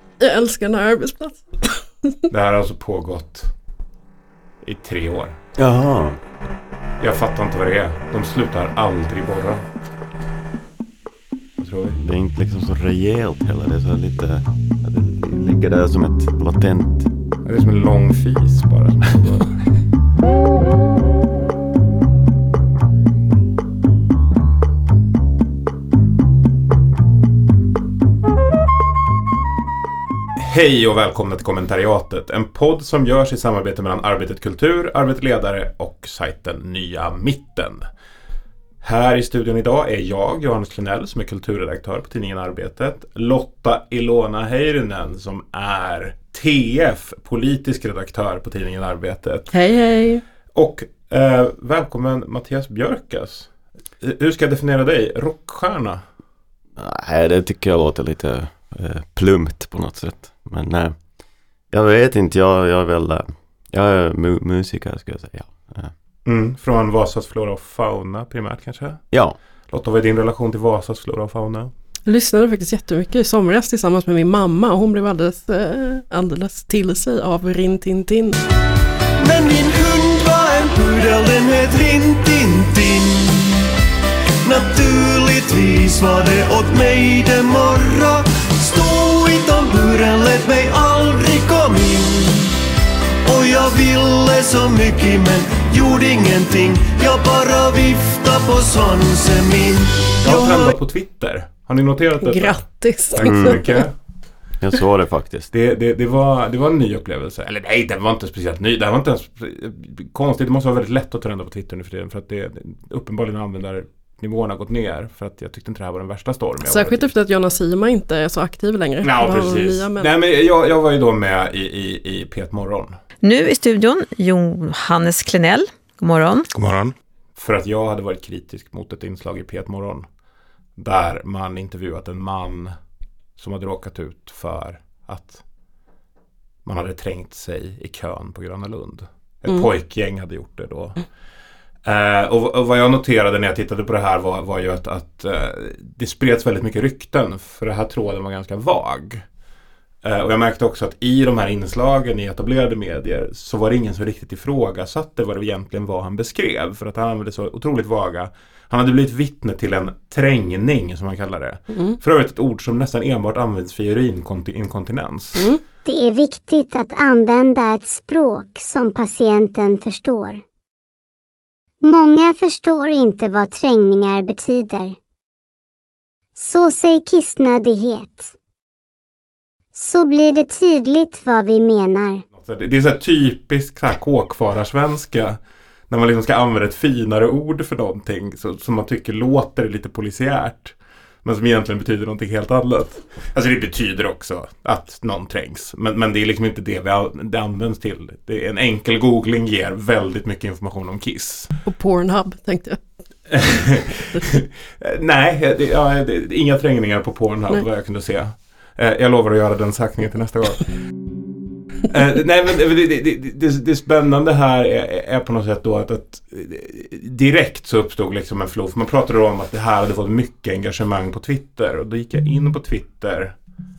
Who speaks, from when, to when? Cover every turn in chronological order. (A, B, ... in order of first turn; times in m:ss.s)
0:00.2-0:02.2 A
0:02.3-0:03.5 B
0:04.6-0:05.4 B
0:05.6-0:06.2 C
0:07.0-0:09.6 B
0:11.6-0:12.0 B
0:12.0-0:17.1 C
0:17.4-0:19.6 B
0:30.4-0:37.8 B
0:38.8-0:49.5 B
0:49.5-0:50.2 A
0:50.5-0:56.0 B
0:56.8-1:01.0 C
1:01.7-1:05.9 C
1:06.2-1:09.0 B
1:09.1-1:09.4 C
1:09.7-1:11.7 B
1:12.0-1:18.4 A
1:19.2-1:23.7 D
1:24.4-1:32.5 D
1:33.2-1:40.7 D
1:40.2-1:43.9 B
1:42.2-1:43.8 A
1:43.2-1:43.6 C
1:44.6-1:45.5 C
1:45.5-1:57.1 B
1:56.6-2:00.1 A
1:59.0-2:03.0 B
2:03.2-2:06.5 E
2:06.5-2:10.0 B
2:10.8-2:12.7 B
2:13.4-2:15.4 B
2:16.6-2:21.0 B
2:21.8-2:29.2 B
2:30.0-2:45.5 B
2:41.7-2:42.0 A
2:45.4-2:45.6 A
2:45.8-2:50.4 F
2:51.8-2:55.0 F
2:56.3-2:58.3 F
2:59.7-3:02.2 F
3:02.4-3:05.4 B
3:05.9-3:21.5 B
3:21.6-3:22.8 A
3:23.3-3:30.6 B
3:31.9-3:43.3 B